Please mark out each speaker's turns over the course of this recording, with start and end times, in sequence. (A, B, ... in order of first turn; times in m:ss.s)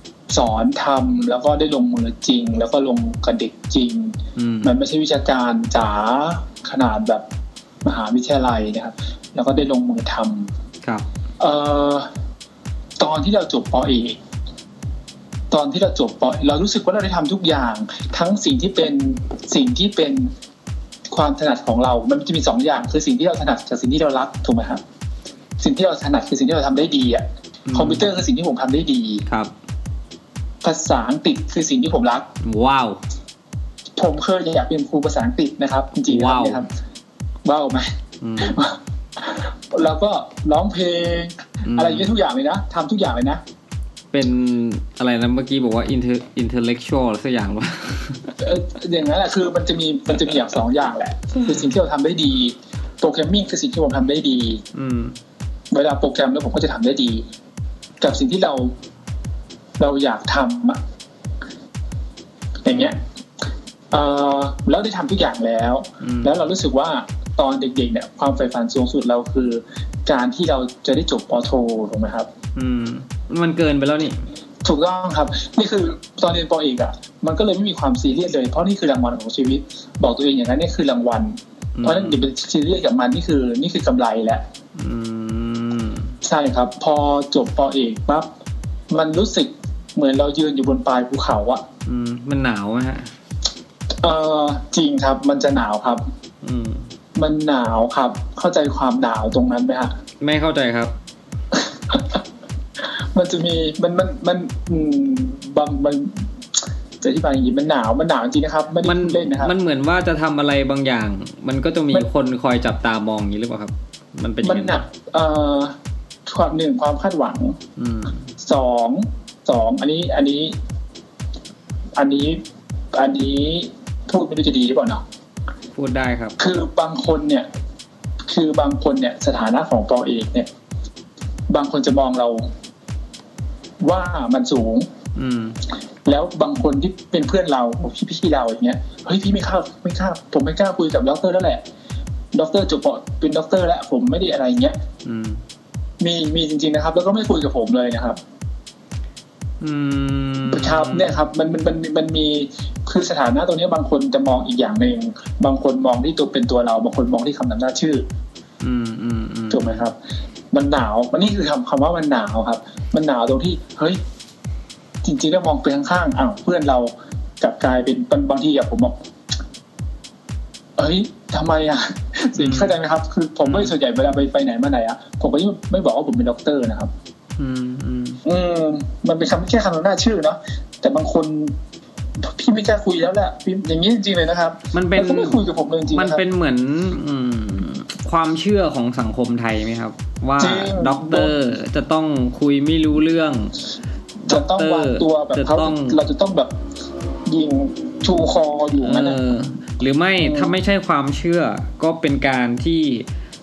0:00.3-0:07.2 A
0:04.4-0:04.7 B
0:07.8-0:10.5 A
0:11.4-0:12.1 A
0:13.0-0:14.2 A
0:15.5-0:20.3 A
0:21.1-0:24.8 A
0:25.6-0:29.2 A
0:27.7-0:28.0 B
0:29.3-0:29.5 B
0:30.6-0:32.3 A
0:32.4-0:33.0 B
0:34.0-0:36.7 A
0:36.1-0:36.6 B
0:37.4-0:43.4 A
0:38.2-0:38.6 B
0:41.6-0:42.1 B
0:44.1-0:48.4 B
0:48.4-0:54.6 A
0:54.7-0:55.2 B
0:55.7-0:57.3 A
0:58.0-0:58.7 A
0:59.8-1:00.8 A
1:02.6-1:03.0 A
1:03.9-1:12.3 A
1:06.0-1:06.3 B
1:12.5-1:14.2 B
1:14.6-1:24.4 A
1:21.8-1:22.2 B
1:24.8-1:26.2 B
1:26.2-1:28.3 A
1:28.9-1:31.6 A
1:31.8-1:33.1 B
1:34.0-1:36.0 A
1:36.4-1:36.8 B
1:37.2-1:39.9 A
1:40.2-1:41.0 B
1:41.5-1:42.2 A
1:42.9-1:46.3 A
1:47.0-1:49.5 A
1:48.8-1:54.8 B
1:54.4-1:57.6 A
1:57.8-1:58.2 B
1:58.4-2:00.5 A
2:02.0-2:02.4 A
2:02.9-2:05.0 A
2:05.7-2:06.4 B
2:06.4-2:07.5 A
2:08.3-2:10.5 A
2:11.5-2:12.5 A
2:13.8-2:14.9 A
2:15.2-2:15.6 B
2:16.0-2:21.6 A
2:22.3-2:24.8 A
2:25.0-2:25.4 B
2:26.0-2:28.2 A
2:29.6-2:31.2 B
2:30.5-2:38.0 A
2:38.6-2:39.8 B
2:39.5-2:40.0 A
2:40.5-2:44.0 A
2:45.0-2:49.0 A
2:50.8-2:56.9 A
2:52.4-2:52.7 B
2:53.4-2:53.7 B
2:57.4-2:58.2 B
2:58.2-3:01.5 A
3:02.2-3:06.2 A
3:04.7-3:13.5 B
3:10.4-3:11.4 A
3:14.2-3:16.0 B
3:14.3-3:16.5 A
3:17.3-3:19.2 A
3:18.8-3:23.1 B
3:20.2-3:20.5 A